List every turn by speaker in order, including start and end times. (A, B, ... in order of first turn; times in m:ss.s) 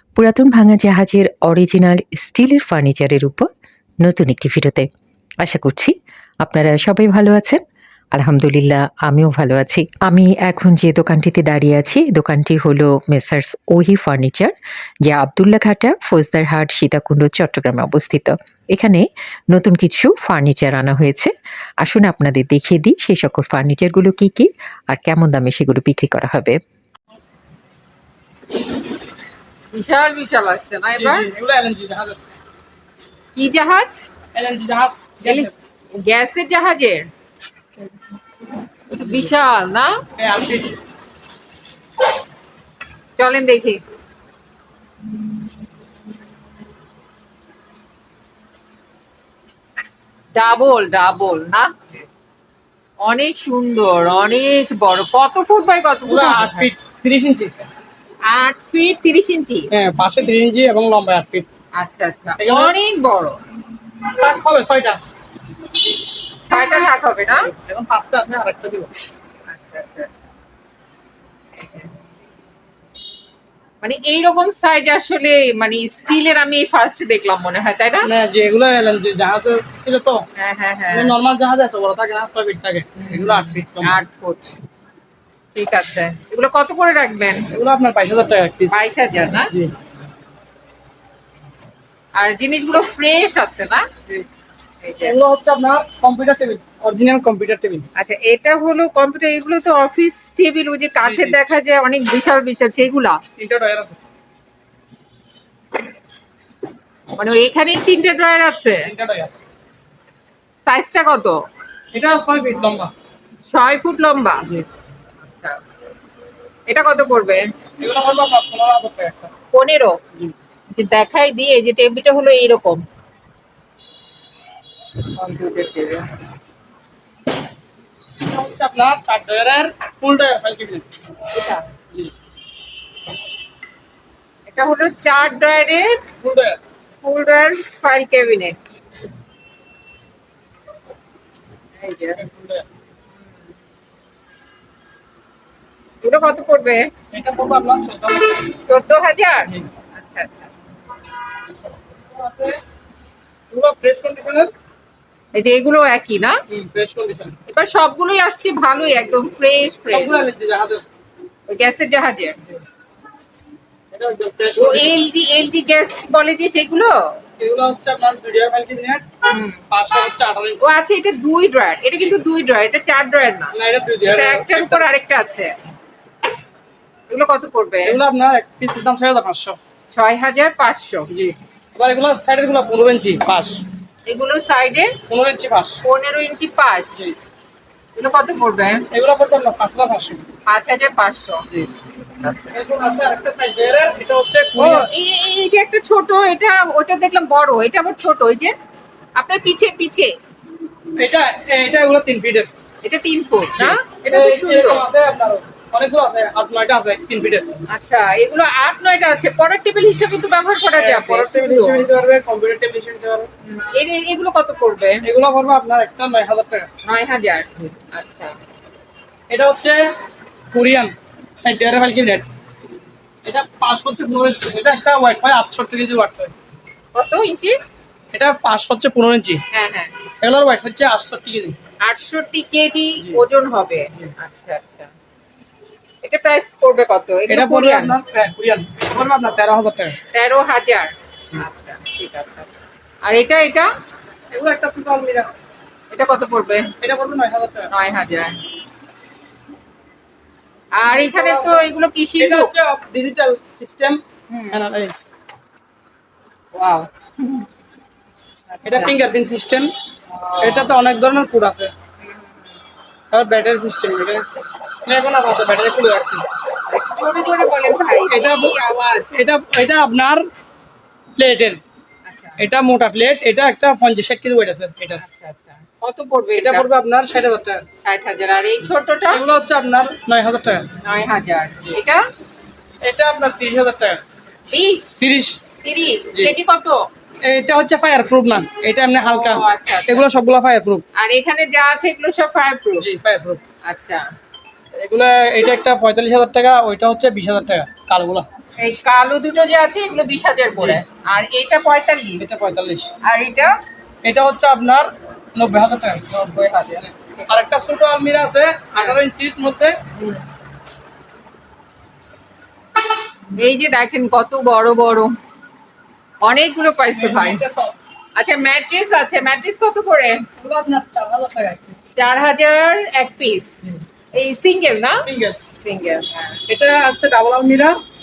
0:00.2-0:03.5 A
0:04.0-0:04.9 A
0:05.4-0:07.6 A
0:08.1-0:14.5 A
0:15.0-0:26.6 A
0:29.7-0:31.3 B
0:30.9-0:32.2 C
0:33.4-0:34.1 B
0:34.3-0:35.5 C
0:35.2-0:37.1 B
0:38.9-0:40.0 B
0:40.2-0:40.8 C
0:43.2-0:43.8 B
0:50.3-0:51.7 B
0:53.0-0:56.7 B
0:56.1-0:57.6 C
0:58.2-0:59.7 B
0:59.7-1:01.4 C
1:01.8-1:03.4 B
1:02.4-1:02.8 C
1:04.1-1:05.0 C
1:06.4-1:07.5 B
1:07.3-1:08.9 C
1:09.5-1:10.2 B
1:11.6-1:11.9 B
1:13.8-1:18.1 B
1:18.0-1:20.2 C
1:20.4-1:21.1 B
1:20.9-1:24.0 C
1:23.0-1:24.5 B
1:25.5-1:27.5 B
1:27.5-1:28.8 C
1:28.7-1:29.5 B
1:32.2-1:33.9 B
1:34.8-1:35.2 B
1:35.0-1:37.8 C
1:38.0-1:43.2 B
1:41.0-1:41.4 C
1:43.4-1:44.0 C
1:47.1-1:48.9 B
1:48.8-1:49.3 C
1:50.6-1:51.4 B
1:51.9-1:52.9 C
1:53.4-1:54.4 B
1:55.3-1:55.6 B
1:56.7-1:57.4 B
1:57.8-1:59.3 C
1:59.5-2:00.0 B
2:00.7-2:02.8 B
2:05.2-2:06.1 B
2:08.2-2:10.8 C
2:11.3-2:11.6 B
2:14.5-2:16.0 B
2:16.2-2:16.6 C
2:17.0-2:18.6 B
2:21.8-2:22.2 B
2:22.2-2:22.6 C
2:26.0-2:26.9 B
2:27.1-2:28.5 C
2:28.6-2:30.5 B
2:31.6-2:32.6 C
2:33.5-2:34.5 C
2:35.3-2:36.4 B
2:36.5-2:37.4 C
2:37.5-2:40.2 B
2:39.9-2:40.8 C
2:41.5-2:42.4 B
2:43.9-2:44.9 C
2:44.6-2:47.0 B
2:47.4-2:49.0 C
2:49.3-2:49.6 B
2:49.7-2:50.6 C
2:50.6-2:53.5 B
2:53.5-2:54.9 C
2:54.0-2:55.5 B
2:57.1-2:58.0 B
2:57.8-2:59.6 C
2:59.9-3:01.1 B
3:01.1-3:03.6 C
3:04.1-3:04.9 B
3:05.1-3:05.8 C
3:05.8-3:07.0 B
3:08.0-3:08.8 B
3:08.9-3:10.2 C
3:10.4-3:11.4 B
3:12.2-3:12.6 B
3:12.5-3:14.9 C
3:14.6-3:18.5 B
3:19.2-3:20.1 B
3:21.0-3:22.5 C
3:22.8-3:24.8 B
3:23.6-3:27.6 C
3:27.7-3:31.9 B
3:30.8-3:33.3 C
3:33.4-3:35.0 B
3:35.0-3:36.7 C
3:36.8-3:38.3 B
3:39.3-3:39.9 C
3:40.5-3:40.9 C
3:41.4-3:42.3 C
3:43.2-3:46.3 C
3:46.9-3:47.6 B
3:48.1-3:49.4 C
3:49.5-3:49.9 B
3:50.2-3:51.6 C
3:51.8-3:54.9 B
3:56.0-3:58.0 B
3:57.3-4:00.0 C
4:00.1-4:02.5 B
4:03.0-4:03.7 B
4:04.3-4:05.3 C
4:05.9-4:06.7 B
4:06.8-4:07.7 C
4:07.7-4:08.4 B
4:10.7-4:12.5 B
4:10.8-4:11.7 C
4:12.2-4:14.0 C
4:14.3-4:14.6 B
4:14.5-4:14.9 C
4:16.5-4:17.5 B
4:18.5-4:19.0 B
4:18.6-4:19.7 C
4:20.1-4:20.7 B
4:20.4-4:21.7 C
4:22.0-4:22.3 B
4:23.1-4:24.2 C
4:24.8-4:26.2 C
4:26.6-4:29.2 B
4:27.8-4:28.6 C
4:29.1-4:30.3 C
4:31.2-4:31.6 C
4:32.0-4:32.4 B
4:32.4-4:35.0 C
4:35.0-4:36.7 B
4:36.4-4:37.6 C
4:37.8-4:39.2 B
4:39.1-4:40.7 C
4:40.8-4:42.0 B
4:42.8-4:44.0 C
4:44.5-4:45.0 B
4:45.0-4:45.4 C
4:45.6-4:46.9 B
4:47.2-4:50.8 C
4:49.0-4:50.1 B
4:51.0-4:52.8 B
4:52.8-4:53.4 C
4:53.6-4:54.0 B
4:54.8-4:58.2 C
4:58.6-5:02.3 B
5:02.2-5:02.9 C
5:03.0-5:03.5 B
5:04.0-5:06.1 C
5:06.1-5:07.4 B
5:07.3-5:09.8 C
5:10.0-5:10.2 B
5:13.4-5:15.1 B
5:16.2-5:17.4 B
5:16.9-5:17.7 C
5:18.2-5:20.2 B
5:20.4-5:21.8 C
5:22.0-5:23.6 B
5:24.1-5:25.0 B
5:25.0-5:25.4 C
5:25.6-5:26.4 B
5:26.5-5:27.8 C